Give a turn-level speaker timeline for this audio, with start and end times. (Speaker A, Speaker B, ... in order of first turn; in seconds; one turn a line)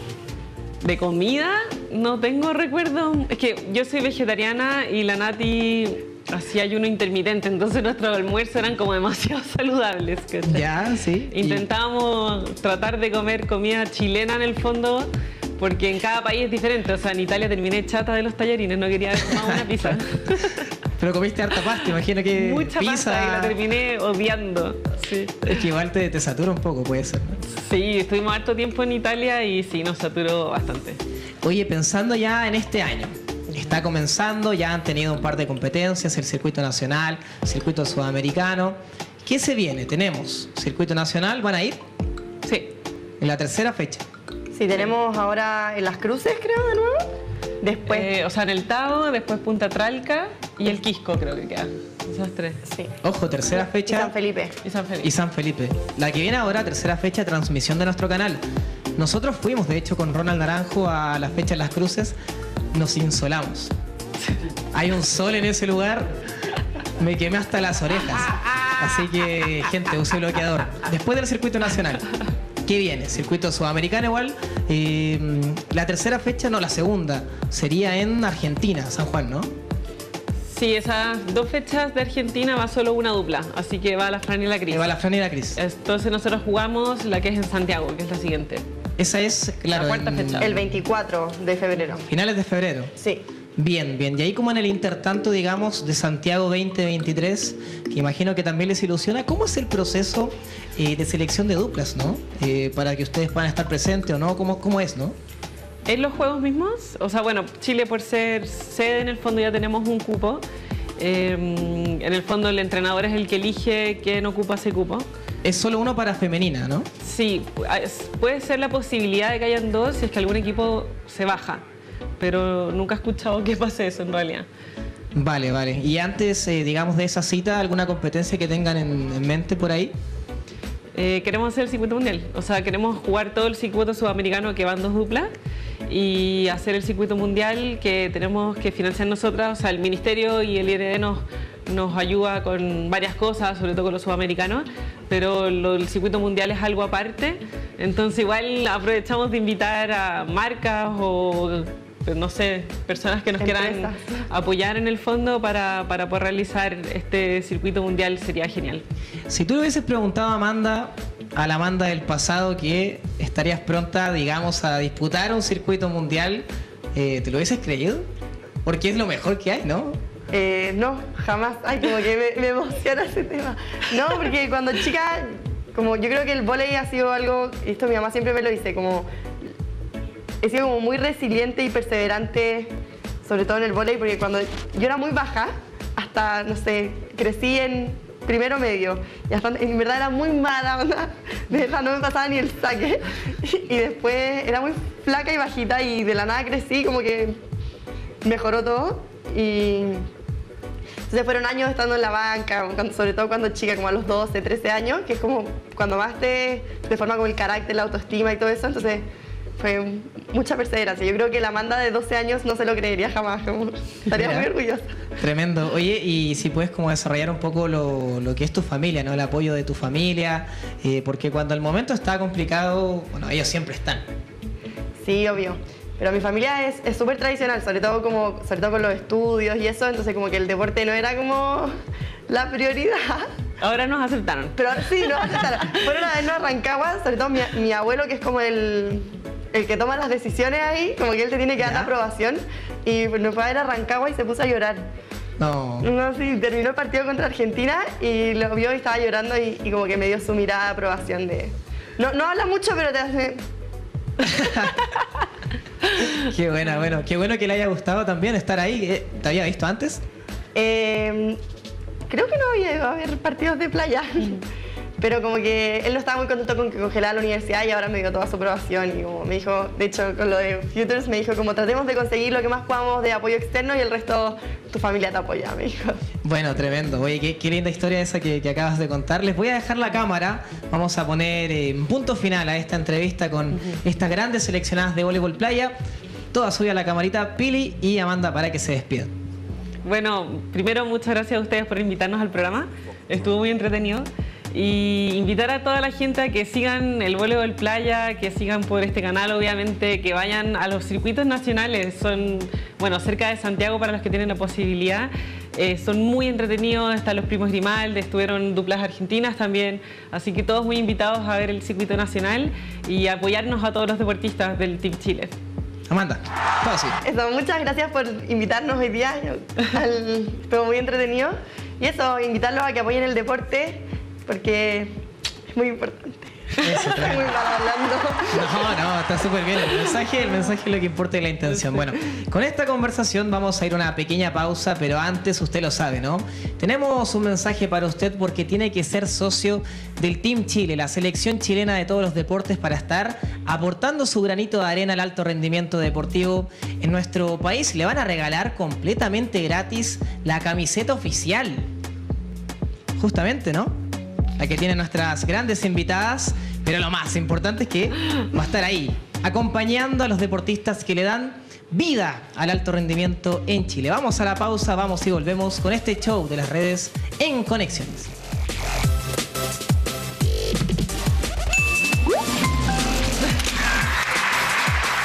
Speaker A: 0.8-10.7
Speaker B: 10.4-11.7
Speaker A: 11.3-20.7
Speaker B: 19.3-20.0
Speaker B: 21.0-23.6
Speaker A: 22.3-25.6
Speaker B: 25.4-27.4
Speaker A: 27.5-31.0
Speaker B: 31.4-41.8
Speaker A: 42.4-42.7
Speaker B: 43.2-44.0
Speaker C: 44.5-47.1
Speaker C: 47.6-48.1
Speaker A: 47.9-52.6
Speaker C: 52.7-52.9
Speaker B: 53.0-54.1
Speaker C: 53.5-54.5
Speaker A: 54.6-55.1
Speaker B: 55.0-58.4
Speaker B: 59.0-62.2
Speaker B: 62.7-63.7
Speaker B: 64.7-66.1
Speaker B: 67.0-72.1
Speaker B: 72.7-79.5
Speaker A: 80.5-85.0
Speaker B: 84.7-85.6
Speaker A: 85.5-88.6
Speaker B: 89.0-90.6
Speaker A: 89.7-90.5
Speaker C: 90.4-92.1
Speaker B: 92.1-92.9
Speaker B: 93.6-105.2
Speaker A: 105.9-110.4
Speaker A: 111.0-115.1
Speaker B: 115.4-116.9
Speaker A: 117.0-121.6
Speaker A: 122.2-124.5
Speaker B: 125.2-129.9
Speaker A: 130.9-135.3
Speaker A: 135.9-158.8
Speaker C: 153.4-154.2
Speaker B: 159.3-168.1
Speaker B: 168.7-170.0
Speaker C: 170.3-179.1
Speaker C: 180.4-182.7
Speaker C: 183.3-197.4
Speaker C: 198.2-200.1
Speaker C: 201.1-209.1
Speaker C: 209.6-214.9
Speaker B: 214.1-214.5
Speaker B: 215.2-224.1
Speaker C: 225.0-231.7
Speaker C: 232.3-233.3
Speaker A: 233.6-235.7
Speaker C: 234.6-244.9
Speaker B: 241.6-241.9
Speaker B: 245.4-245.9
Speaker C: 245.8-253.4
Speaker B: 254.2-254.8
Speaker B: 256.0-260.0
Speaker C: 260.6-261.4
Speaker C: 262.1-264.4
Speaker C: 265.0-276.0
Speaker B: 276.2-285.8
Speaker B: 286.3-289.1
Speaker A: 289.9-315.3
Speaker B: 315.9-317.0
Speaker C: 317.0-324.9
Speaker C: 325.5-328.6
Speaker B: 326.6-327.3
Speaker B: 328.3-351.7
Speaker B: 353.0-353.8
Speaker B: 354.4-368.1